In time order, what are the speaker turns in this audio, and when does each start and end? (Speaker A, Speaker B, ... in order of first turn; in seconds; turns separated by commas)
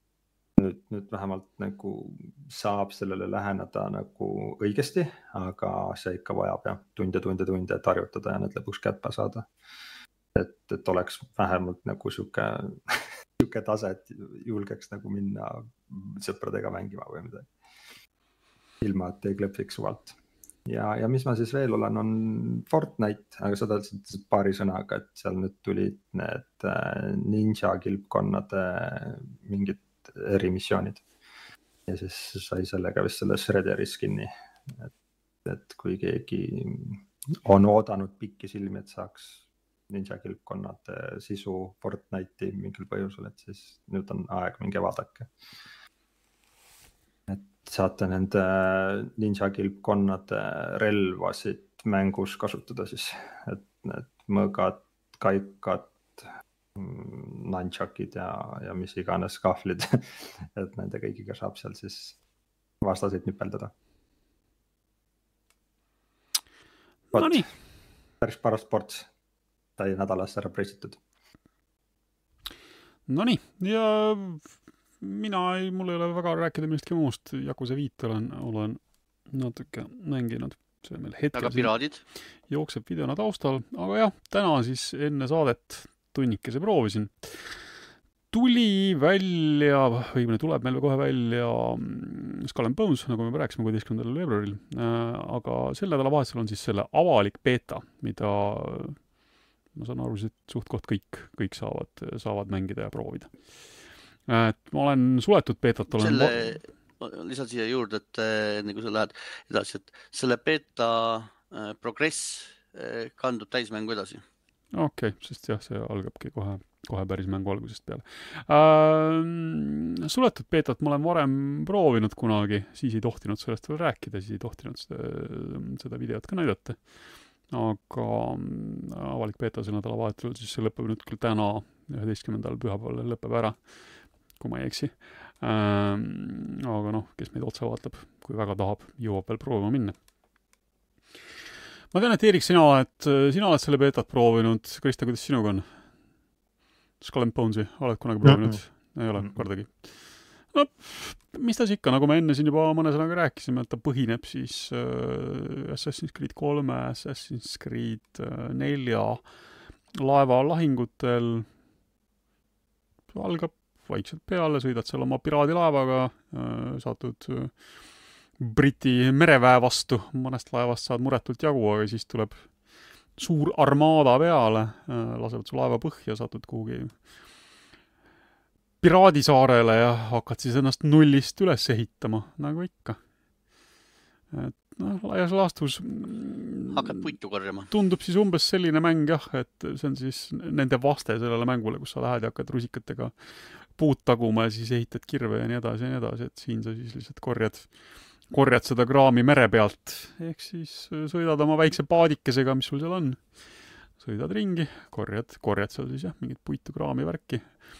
Speaker A: 0.6-9.5, Speaker A: 10.3-17.5, Speaker A: 18.8-31.1, Speaker A: 31.9-34.9, Speaker A: 35.4-45.3, Speaker A: 47.3-62.2, Speaker A: 62.8-63.7, Speaker A: 67.1-67.4, Speaker B: 67.1-67.5, Speaker A: 68.2-69.1, Speaker A: 69.8-71.0, Speaker B: 73.1-74.5, Speaker B: 75.0-81.7, Speaker C: 81.3-82.0, Speaker B: 82.5-87.6, Speaker B: 88.3-99.0, Speaker B: 99.7-103.4, Speaker B: 104.3-106.5, Speaker C: 105.9-114.2, Speaker B: 114.7-126.9, Speaker B: 127.5-133.6, Speaker B: 134.3-139.9, Speaker B: 141.9-145.7, Speaker B: 147.0-149.9, Speaker A: 148.2-148.6, Speaker B: 150.4-159.2, Speaker B: 159.9-161.5, Speaker B: 163.1-167.6, Speaker B: 168.4-172.5, Speaker B: 173.2-176.9, Speaker B: 178.8-183.0, Speaker B: 184.3-187.1, Speaker C: 186.7-187.7, Speaker B: 187.7-197.7, Speaker B: 198.3-203.3, Speaker B: 204.0-207.5